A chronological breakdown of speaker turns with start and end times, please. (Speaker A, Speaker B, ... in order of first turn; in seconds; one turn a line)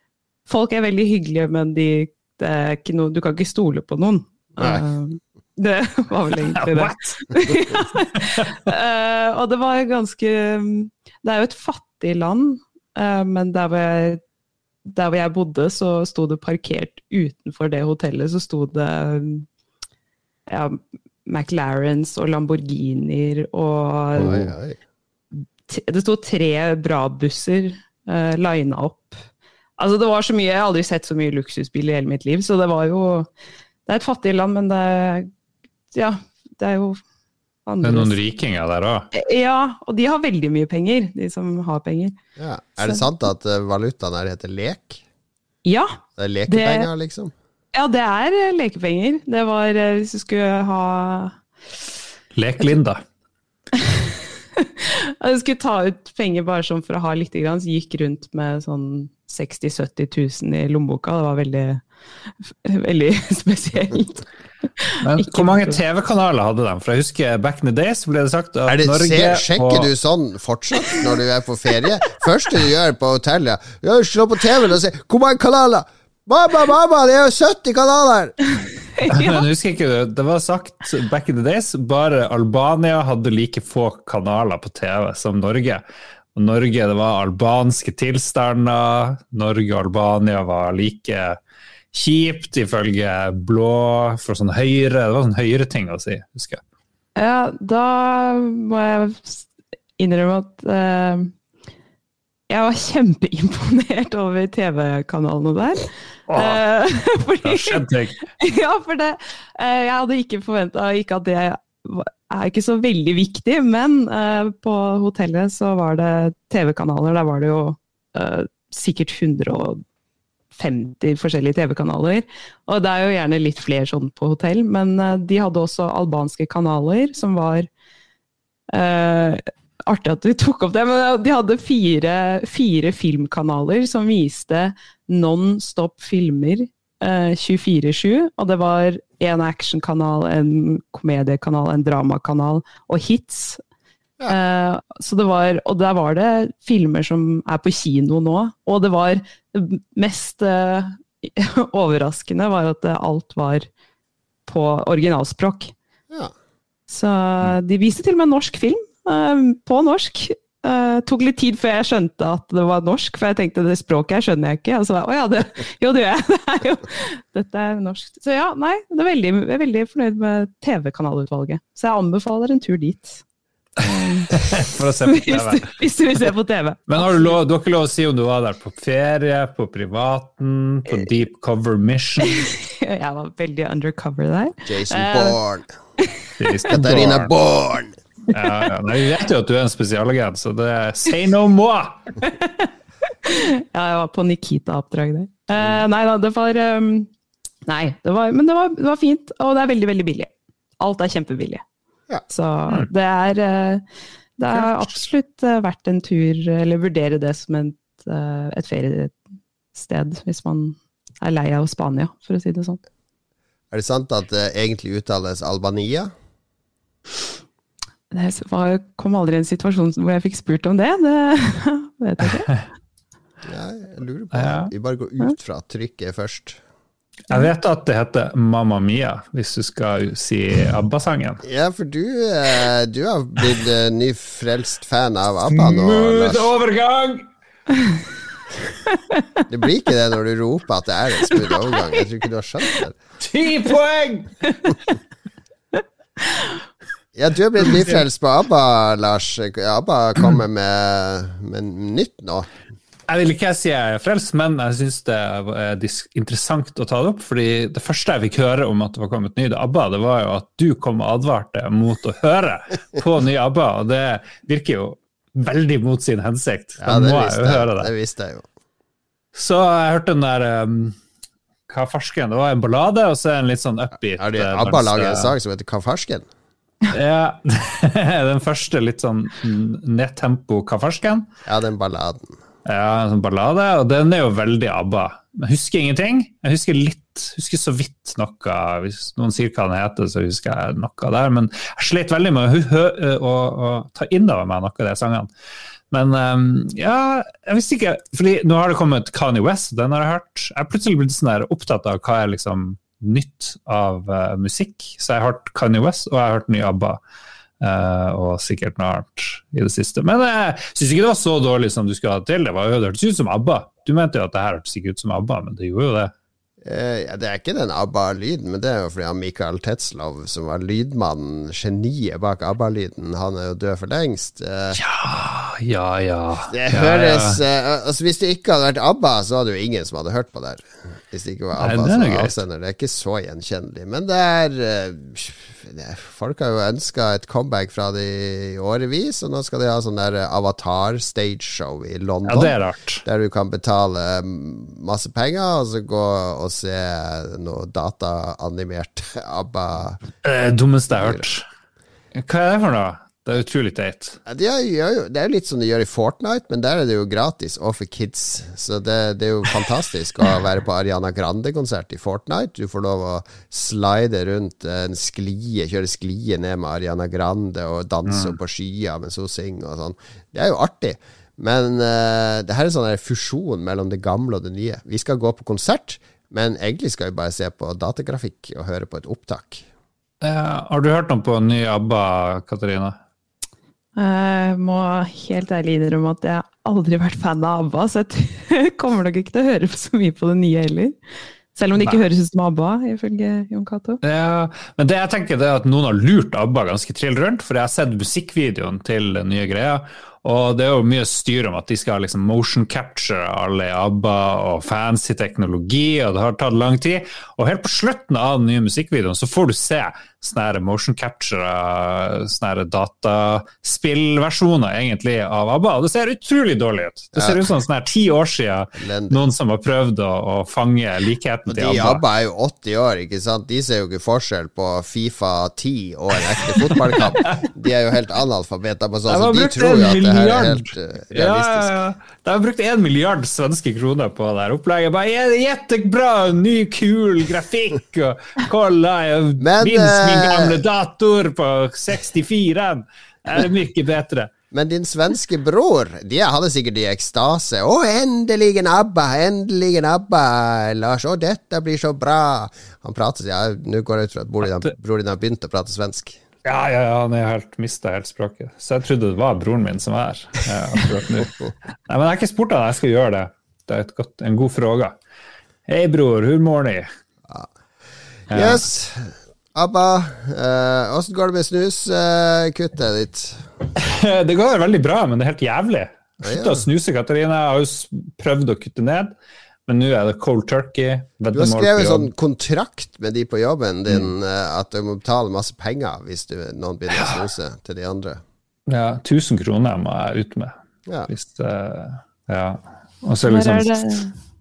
Speaker A: 0.5-14.2
Speaker B: 6.5-7.5
Speaker B: 8.1-8.7
Speaker A: 14.8-19.5
Speaker A: 20.5-24.5
Speaker C: 24.1-24.8
Speaker A: 25.3-29.2
Speaker A: 29.8-33.3
Speaker A: 33.9-35.3
Speaker A: 35.9-37.0
Speaker A: 37.6-38.1
Speaker B: 37.8-39.1
Speaker A: 39.1-42.1
Speaker C: 42.4-45.0
Speaker A: 45.6-46.9
Speaker C: 46.2-47.3
Speaker A: 47.7-51.4
Speaker B: 52.3-53.0
Speaker A: 53.8-64.2
Speaker A: 64.8-65.8
Speaker B: 65.0-69.9
Speaker C: 68.7-78.4
Speaker A: 79.0-79.4
Speaker B: 79.0-85.8
Speaker B: 86.3-91.4
Speaker B: 91.9-96.6
Speaker A: 97.2-99.5
Speaker A: 100.0-101.3
Speaker A: 102.5-119.8
Speaker B: 106.3-106.6
Speaker B: 107.4-108.2
Speaker A: 120.5-127.7
Speaker A: 128.7-143.6
Speaker A: 144.3-153.7
Speaker A: 154.4-155.7
Speaker A: 156.9-173.2
Speaker B: 173.8-176.3
Speaker A: 173.8-177.3
Speaker B: 176.9-182.5
Speaker A: 182.2-185.4
Speaker C: 184.7-185.7
Speaker B: 186.4-187.3
Speaker C: 186.7-187.9
Speaker B: 188.3-192.1
Speaker A: 192.2-197.1
Speaker A: 197.7-201.6
Speaker A: 202.3-203.8
Speaker A: 204.4-209.2
Speaker B: 204.5-205.0
Speaker A: 209.7-212.8
Speaker C: 213.7-216.1
Speaker A: 218.1-222.6
Speaker C: 223.4-226.6
Speaker B: 224.3-224.7
Speaker B: 227.3-231.4
Speaker C: 231.4-236.5
Speaker B: 235.5-237.2
Speaker C: 239.5-243.0
Speaker B: 243.2-244.3
Speaker A: 246.2-246.6
Speaker C: 247.1-252.5
Speaker B: 253.1-267.9
Speaker C: 266.8-268.5
Speaker B: 269.3-271.0
Speaker B: 271.7-275.3
Speaker C: 274.2-276.2
Speaker B: 276.9-281.3
Speaker C: 281.4-282.4
Speaker B: 282.6-295.3
Speaker B: 295.9-307.0
Speaker B: 307.6-316.1
Speaker C: 316.6-324.8
Speaker B: 324.7-327.4
Speaker C: 326.5-350.0
Speaker B: 331.6-332.4
Speaker B: 342.2-343.0
Speaker B: 350.2-351.4
Speaker C: 350.9-351.2
Speaker B: 352.1-354.2
Speaker C: 354.2-379.6
Speaker B: 368.1-368.4
Speaker B: 380.2-383.0
Speaker A: 383.9-390.9
Speaker A: 391.6-394.0
Speaker B: 394.0-422.0
Speaker C: 417.1-417.5
Speaker C: 418.8-419.2
Speaker C: 421.5-431.7
Speaker B: 426.3-427.4
Speaker B: 429.1-444.3
Speaker C: 439.4-440.6
Speaker C: 444.5-456.2
Speaker B: 456.4-461.3
Speaker B: 461.9-465.0
Speaker B: 465.6-466.9
Speaker B: 468.3-468.6
Speaker C: 468.3-473.5
Speaker B: 473.8-479.1
Speaker C: 476.2-476.6
Speaker B: 479.7-482.1
Speaker C: 481.3-488.2
Speaker B: 486.9-487.2
Speaker B: 488.7-490.6
Speaker B: 491.1-493.9
Speaker A: 493.2-494.1